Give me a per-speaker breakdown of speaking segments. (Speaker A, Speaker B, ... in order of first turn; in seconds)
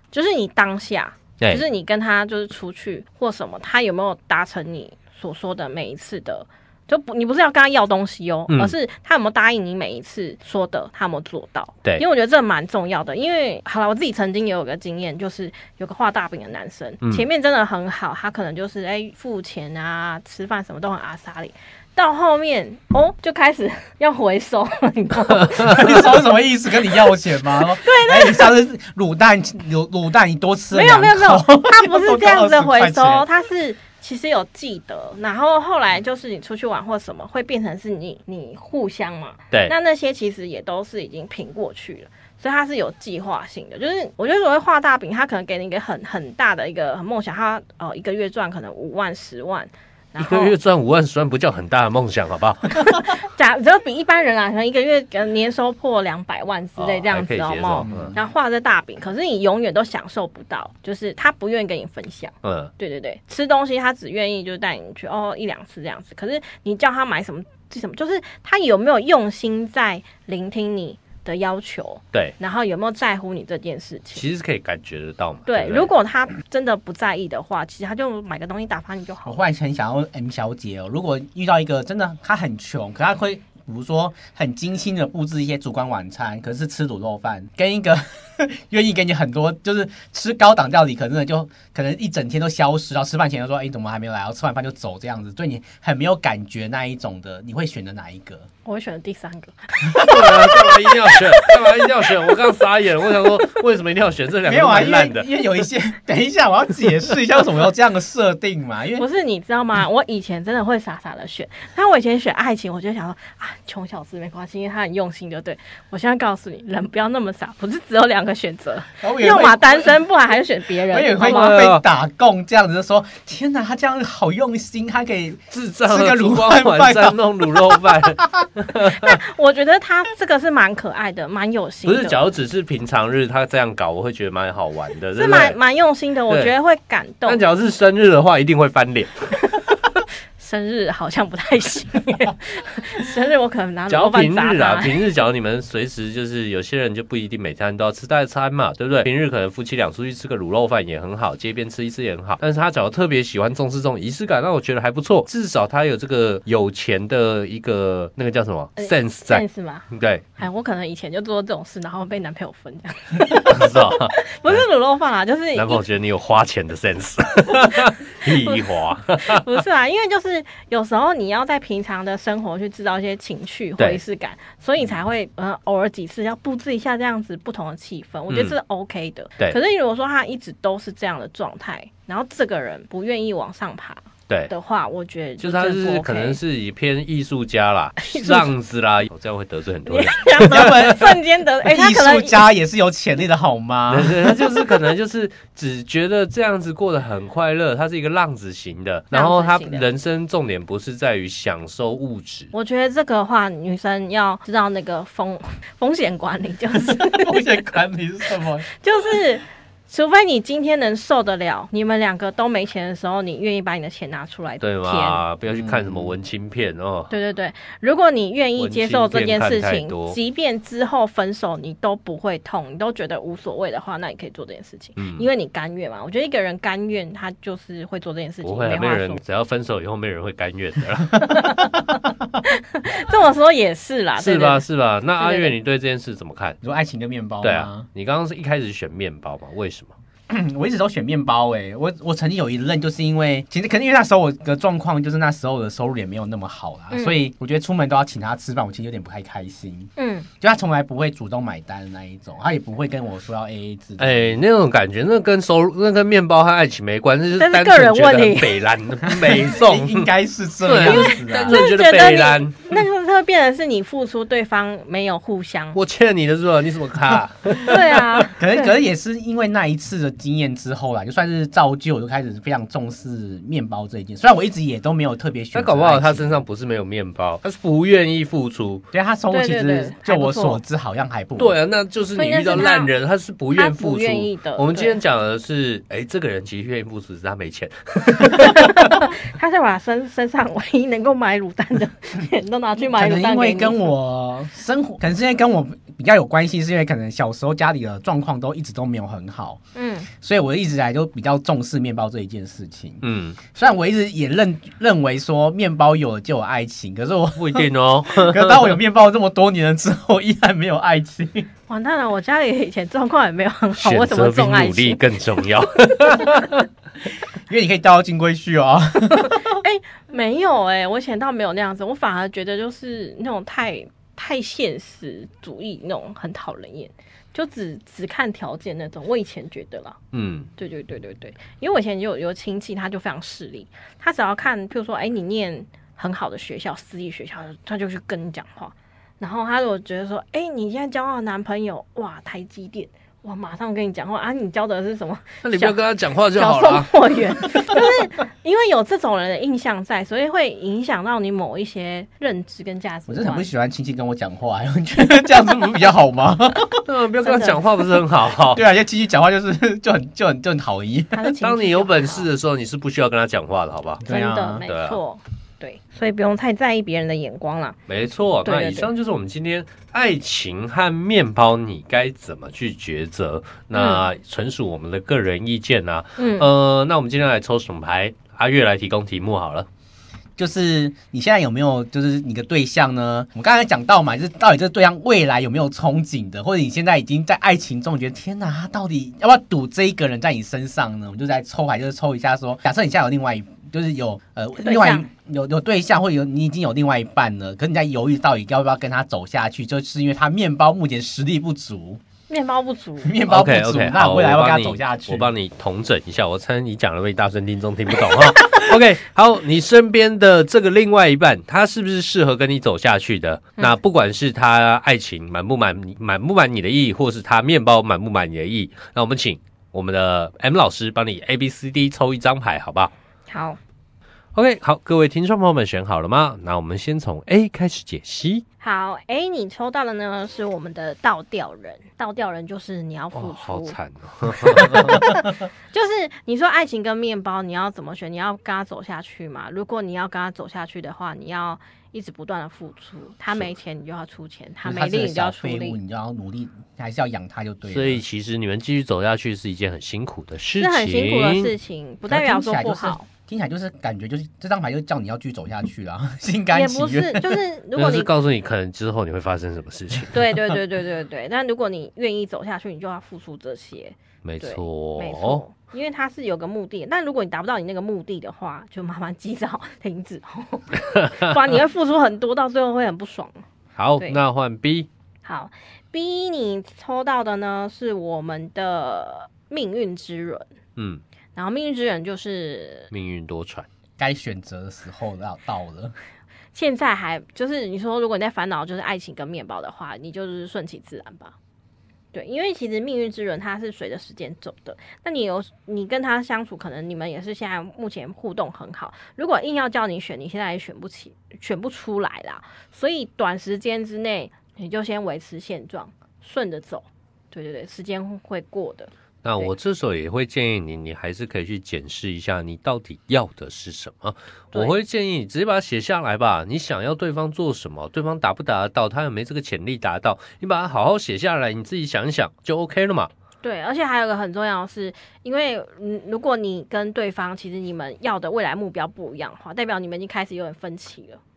Speaker A: 0.1-26.2, 27.6-28.5, 30.7-50.5, 52.8-74.2, 75.5-79.4, 98.6-102.3, 109.0-121.7, 128.9-132.2, 135.2-137.4, 139.4-139.7, 140.4-145.0, 158.8-159.8, 160.4-165.8, 168.2-186.4, 188.0-188.5, 189.8-192.4, 199.1-199.8, 202.5-207.4, 208.7-215.2, 217.1-229.2, 231.2-234.6, 235.2-235.5, 246.9-247.2, 250.0-250.3, 257.4-258.5, 260.8-265.8, 267.6-268.6, 279.3-280.6, 282.1-282.9, 283.5-285.0, 288.2-293.9, 299.7-300.1, 311.7-315.0, 319.1-330.0, 330.6-345.8, 346.3-353.4, 357.2-357.6, 361.1-362.3, 364.1-367.8, 368.4-368.9, 373.7-374.1, 376.2-376.5, 394.6-395.1, 402.3-403.1, 423.3-423.6, 428.6-433.8, 434.6-445.8, 450.6-453.1, 456.5-458.1, 460.1-473.4, 475.2-480.5, 481.3-482.9, 486.5-491.3, 492.1-509.5, 523.4-531.2
Speaker B: 8.5-8.7, 50.2-52.9, 56.8-58.1, 62.4-62.7, 74.1-75.9, 100.0-105.4, 121.2-121.8, 125.5-129.2, 131.8-135.6, 137.2-139.3, 143.9-160.2, 163.4-164.6, 165.5-169.4, 178.3-178.6, 185.4-190.8, 193.9-202.5, 214.6-217.1, 218.6-220.2, 225.0-225.2, 228.4-231.5, 234.2-236.6, 237.4-239.9, 254.0-260.1, 260.6-262.7, 265.7-268.3, 275.5-278.8, 281.4-288.9, 303.0-303.4, 307.4-308.7, 313.7-316.6, 330.1-330.5, 345.4-347.0, 356.8-358.6, 361.4-364.0, 364.7-365.0, 367.9-379.7, 403.3-422.9, 424.3-428.4, 433.1-435.1, 447.7-451.5, 457.8-460.2, 464.2-465.4, 473.8-474.9, 480.8-481.0, 482.9-483.7, 509.2-523.1
Speaker C: 25.6-33.2, 57.8-58.2, 79.2-98.5, 99.9-100.5, 104.4-109.0, 119.0-120.0, 120.9-128.4, 190.4-194.6, 206.9-208.7, 215.5-216.1, 236.6-237.9, 240.3-254.4, 259.1-261.6, 268.3-276.4, 278.9-281.6, 292.9-299.6, 300.1-311.5, 317.5-319.6, 353.1-356.8, 358.5-361.3, 364.0-364.6, 380.4-402.0, 403.0-405.3, 444.6-448.0, 452.1-457.4, 484.0-485.9